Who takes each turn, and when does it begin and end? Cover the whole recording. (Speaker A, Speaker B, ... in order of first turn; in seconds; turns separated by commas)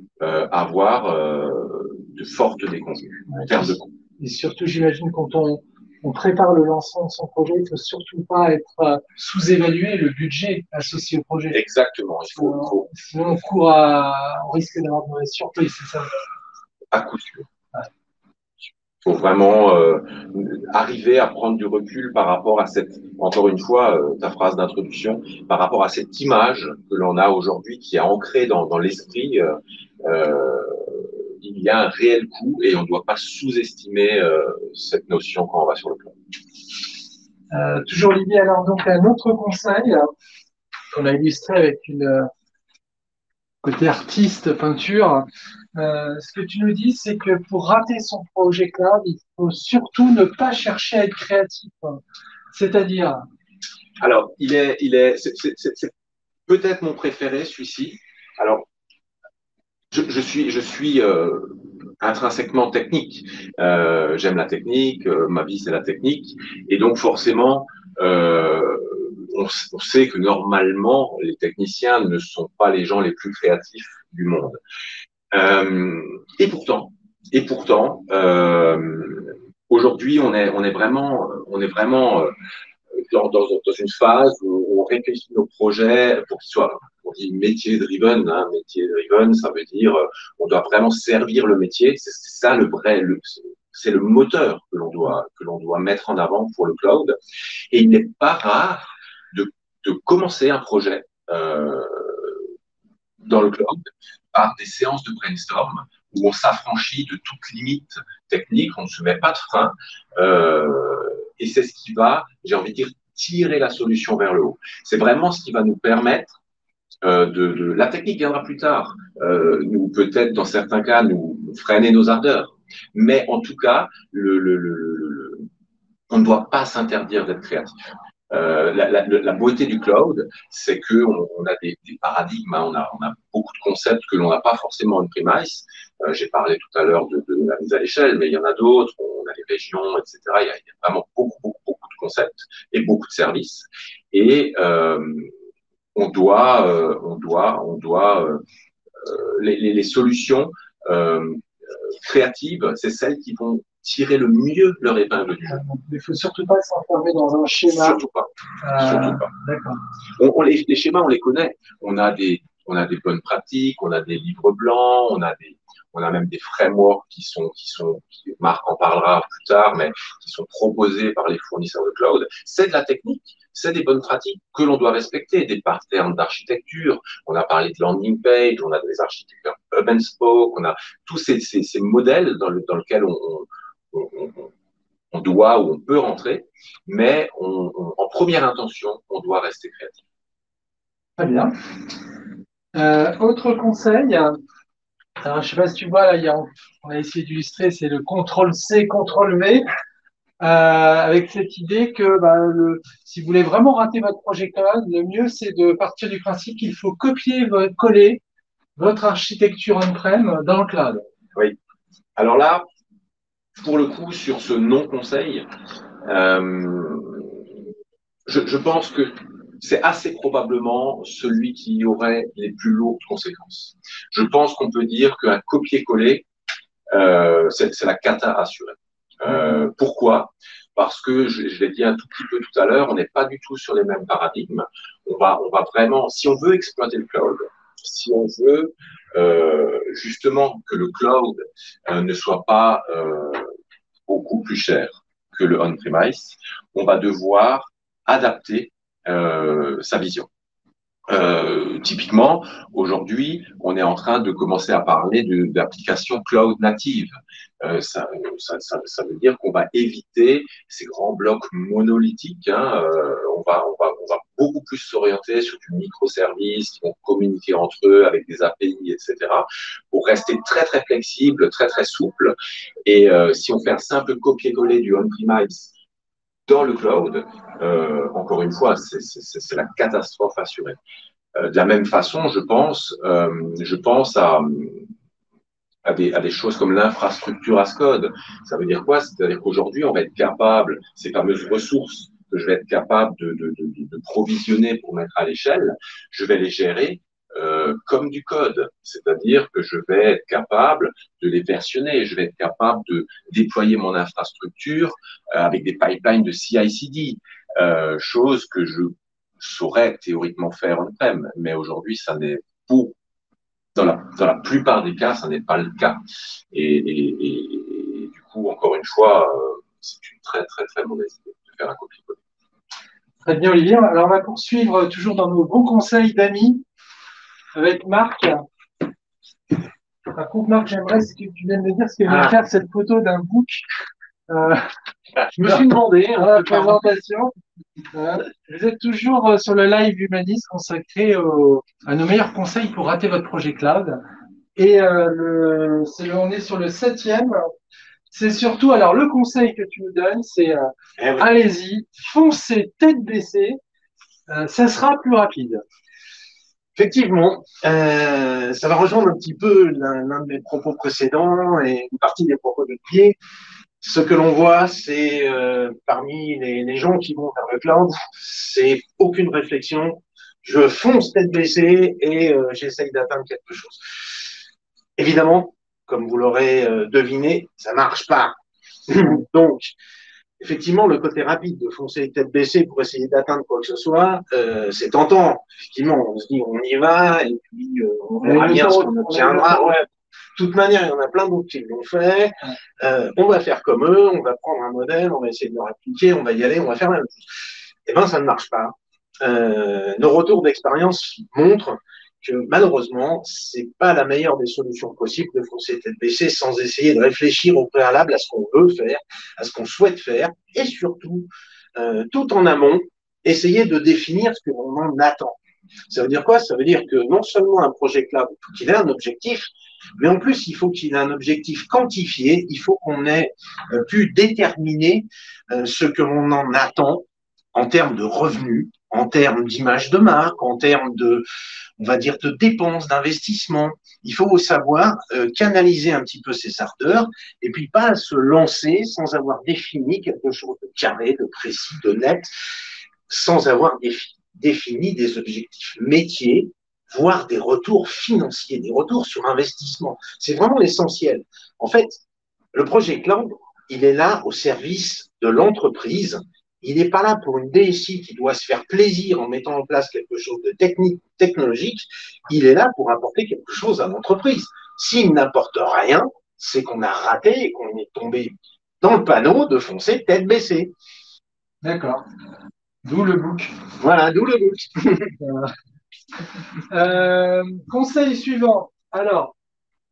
Speaker A: 0.2-3.9, Speaker B: 3.3-3.7, Speaker B: 4.2-11.6, Speaker A: 11.5-12.9, Speaker B: 12.3-16.1, Speaker A: 16.9-17.5, Speaker A: 19.1-36.1, Speaker B: 37.5-40.1, Speaker B: 40.9-42.3, Speaker B: 43.6-52.0, Speaker B: 52.5-53.2, Speaker A: 54.0-55.9, Speaker A: 56.5-58.7, Speaker A: 59.9-74.6, Speaker A: 75.3-82.3, Speaker A: 83.0-97.2, Speaker A: 97.7-102.5, Speaker A: 103.2-116.4, Speaker A: 117.0-125.5, Speaker A: 126.1-127.7, Speaker A: 128.3-145.3, Speaker A: 145.9-148.4, Speaker A: 149.0-155.6, Speaker B: 155.5-158.0, Speaker A: 157.7-159.3, Speaker B: 158.6-159.8, Speaker A: 160.2-184.5, Speaker A: 185.1-190.0, Speaker B: 191.2-191.5, Speaker B: 192.7-194.4, Speaker B: 195.2-199.6, Speaker B: 200.4-208.2, Speaker B: 208.8-211.1, Speaker A: 212.2-212.7, Speaker A: 213.6-215.5, Speaker A: 216.0-217.4, Speaker A: 218.3-226.3, Speaker A: 226.9-243.5, Speaker A: 244.1-250.3, Speaker A: 251.1-275.7, Speaker A: 276.5-280.8, Speaker A: 281.4-284.9, Speaker A: 285.9-312.9, Speaker A: 313.8-316.0, Speaker A: 316.5-322.2, Speaker B: 323.2-326.6, Speaker B: 327.6-328.4, Speaker B: 330.1-333.6, Speaker B: 334.3-334.7, Speaker C: 335.4-336.9, Speaker B: 336.2-337.3, Speaker B: 337.9-344.0, Speaker B: 344.6-347.5, Speaker B: 348.1-353.6, Speaker C: 351.0-351.2, Speaker B: 354.3-355.6, Speaker C: 356.8-363.2, Speaker C: 363.8-373.8, Speaker C: 375.0-378.4, Speaker C: 378.9-379.8, Speaker C: 380.4-415.4, Speaker B: 388.2-389.7, Speaker C: 415.9-431.2, Speaker C: 431.8-442.3, Speaker C: 443.1-452.0, Speaker C: 452.5-470.7, Speaker B: 471.6-472.0, Speaker B: 472.8-473.5, Speaker C: 473.8-475.1, Speaker B: 475.2-475.5, Speaker B: 476.7-479.3